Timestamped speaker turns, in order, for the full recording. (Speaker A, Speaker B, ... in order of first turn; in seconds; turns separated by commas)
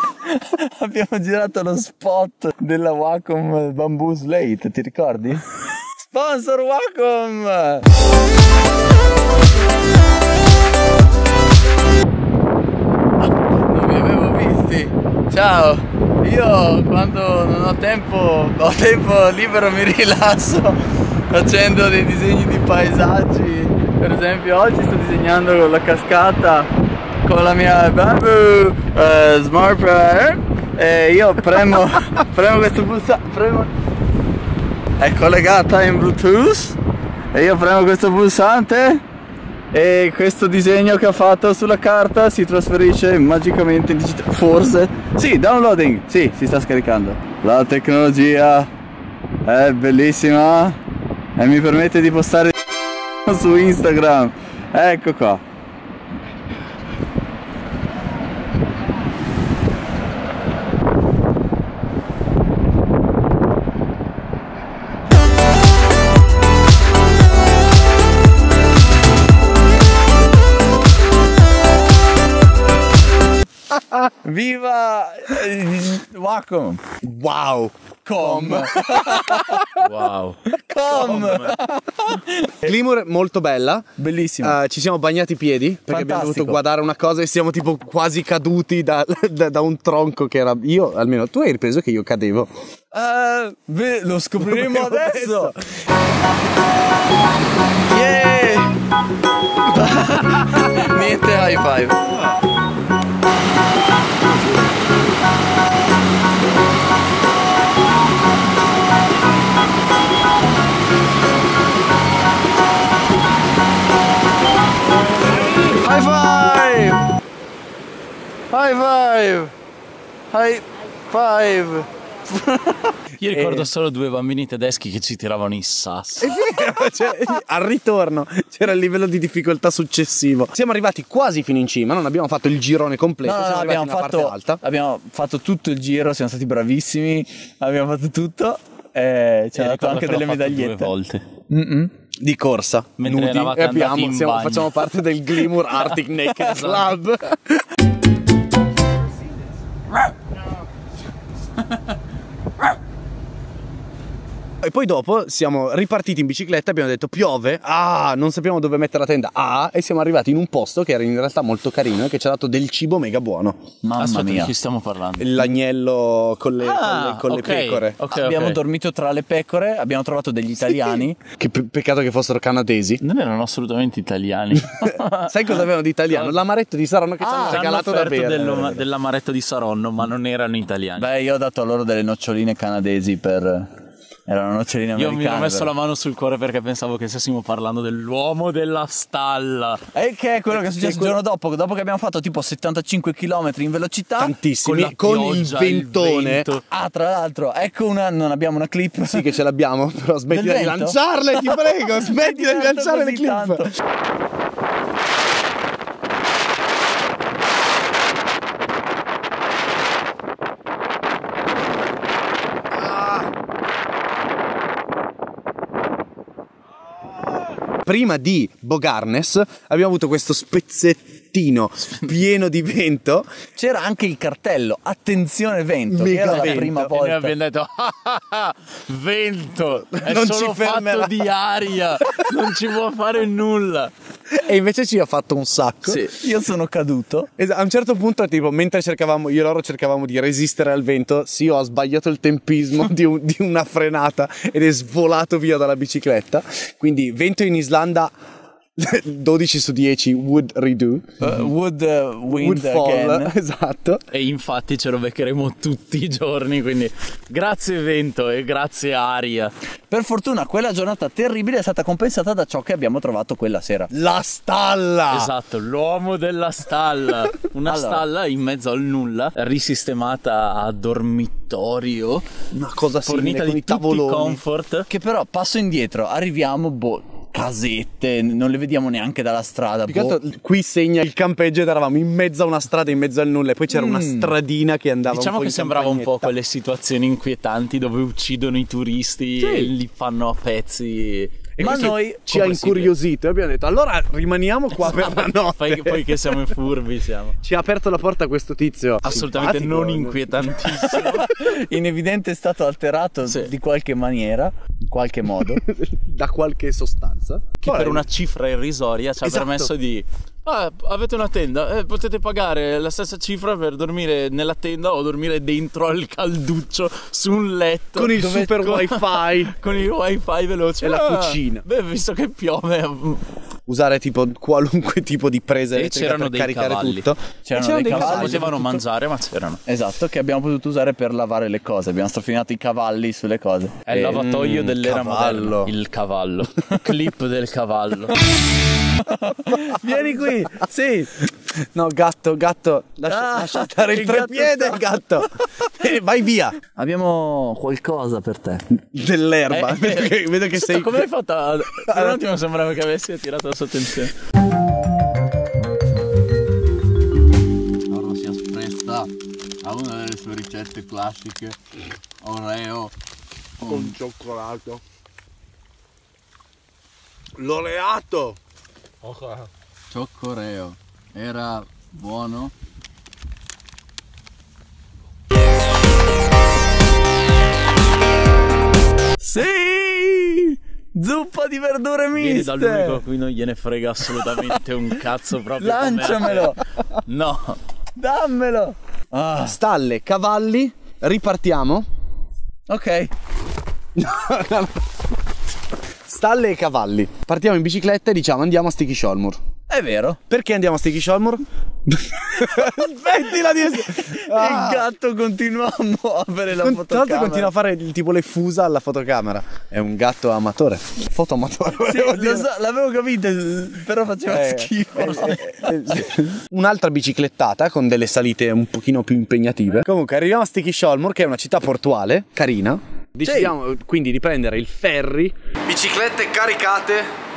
Speaker A: 0.2-5.5, Speaker A: 6.1-7.9, Speaker A: 13.2-20.8, Speaker A: 21.3-26.7, Speaker A: 27.2-33.7, Speaker A: 35.0-36.8, Speaker A: 37.3-39.0, Speaker A: 39.7-48.7, Speaker A: 49.5-50.8, Speaker A: 51.4-52.6, Speaker A: 53.2-55.4, Speaker A: 74.2-76.8, Speaker B: 77.0-79.6, Speaker A: 78.0-79.8, Speaker C: 79.8-81.6, Speaker A: 80.5-82.7, Speaker B: 82.6-83.9, Speaker A: 84.0-84.6, Speaker B: 84.4-92.5, Speaker A: 85.9-86.6, Speaker A: 92.9-95.6, Speaker B: 94.4-95.6, Speaker A: 97.9-98.7, Speaker A: 99.7-102.0, Speaker A: 115.6-117.0, Speaker A: 118.5-119.5, Speaker A: 120.3-123.7, Speaker C: 123.2-126.3, Speaker B: 126.2-134.6, Speaker A: 133.2-140.9, Speaker C: 139.6-141.2, Speaker A: 141.5-141.9, Speaker B: 142.2-147.7, Speaker C: 143.0-146.9, Speaker B: 154.6-163.6, Speaker A: 163.8-164.5, Speaker C: 164.0-165.4, Speaker B: 165.2-168.0, Speaker C: 166.6-168.6, Speaker A: 168.1-171.2, Speaker B: 170.7-173.0, Speaker C: 173.0-176.4, Speaker B: 175.2-178.8, Speaker A: 177.2-177.7, Speaker C: 177.3-181.1, Speaker A: 181.0-183.7, Speaker A: 184.3-185.7, Speaker C: 184.9-189.8, Speaker A: 189.9-194.4, Speaker B: 190.5-191.2, Speaker B: 194.2-196.5, Speaker C: 194.6-196.6, Speaker A: 196.7-199.4, Speaker B: 199.1-203.7, Speaker A: 200.3-203.7, Speaker B: 212.8-213.2, Speaker B: 217.8-223.3, Speaker A: 223.6-227.3, Speaker B: 225.9-226.9, Speaker C: 226.3-233.9, Speaker B: 229.9-231.2, Speaker B: 232.0-232.3, Speaker B: 234.3-236.1, Speaker C: 235.8-236.2, Speaker A: 236.1-237.3, Speaker B: 237.4-248.1, Speaker B: 248.8-251.1, Speaker A: 251.2-253.3, Speaker B: 252.3-254.0, Speaker C: 254.1-259.5, Speaker A: 259.9-263.9, Speaker B: 263.9-265.3, Speaker C: 265.1-272.3, Speaker A: 267.7-268.1, Speaker B: 272.5-274.4, Speaker C: 273.0-274.9, Speaker A: 274.9-280.2, Speaker B: 279.9-286.3, Speaker A: 283.7-284.3, Speaker C: 285.1-293.0, Speaker B: 289.4-289.7, Speaker B: 291.6-296.4, Speaker A: 291.6-292.3, Speaker C: 294.9-297.4, Speaker B: 297.4-300.7, Speaker C: 299.1-301.3, Speaker A: 300.9-305.6, Speaker C: 303.3-303.5, Speaker B: 305.5-308.1, Speaker C: 307.6-323.2, Speaker B: 309.2-309.7, Speaker B: 317.9-319.6, Speaker B: 320.8-321.6, Speaker B: 323.7-328.8, Speaker C: 325.7-327.1, Speaker A: 327.4-328.5, Speaker C: 327.9-329.6, Speaker A: 329.7-334.3, Speaker C: 333.9-338.2, Speaker B: 334.0-335.8, Speaker A: 338.9-341.2, Speaker B: 339.7-340.6, Speaker B: 341.7-346.6, Speaker A: 343.1-345.0, Speaker A: 346.7-348.6, Speaker B: 348.8-351.1, Speaker C: 349.5-354.1, Speaker B: 351.9-352.2, Speaker A: 357.9-359.1, Speaker A: 359.6-361.6, Speaker A: 362.2-362.9, Speaker A: 363.6-363.9, Speaker B: 363.7-364.8, Speaker B: 367.4-368.4, Speaker B: 369.1-369.5, Speaker A: 369.9-372.5, Speaker A: 379.2-383.0, Speaker C: 382.1-386.6, Speaker A: 384.1-384.6, Speaker A: 385.6-386.6, Speaker C: 387.1-387.6, Speaker A: 388.0-389.6, Speaker B: 389.4-391.9, Speaker A: 392.7-393.1, Speaker B: 394.0-394.8, Speaker B: 396.1-399.4, Speaker A: 399.7-400.2, Speaker B: 400.3-404.9, Speaker A: 402.4-402.8, Speaker A: 403.9-407.5, Speaker B: 406.5-412.5, Speaker A: 411.8-416.1, Speaker B: 414.3-427.1, Speaker C: 415.0-415.4, Speaker A: 423.2-423.5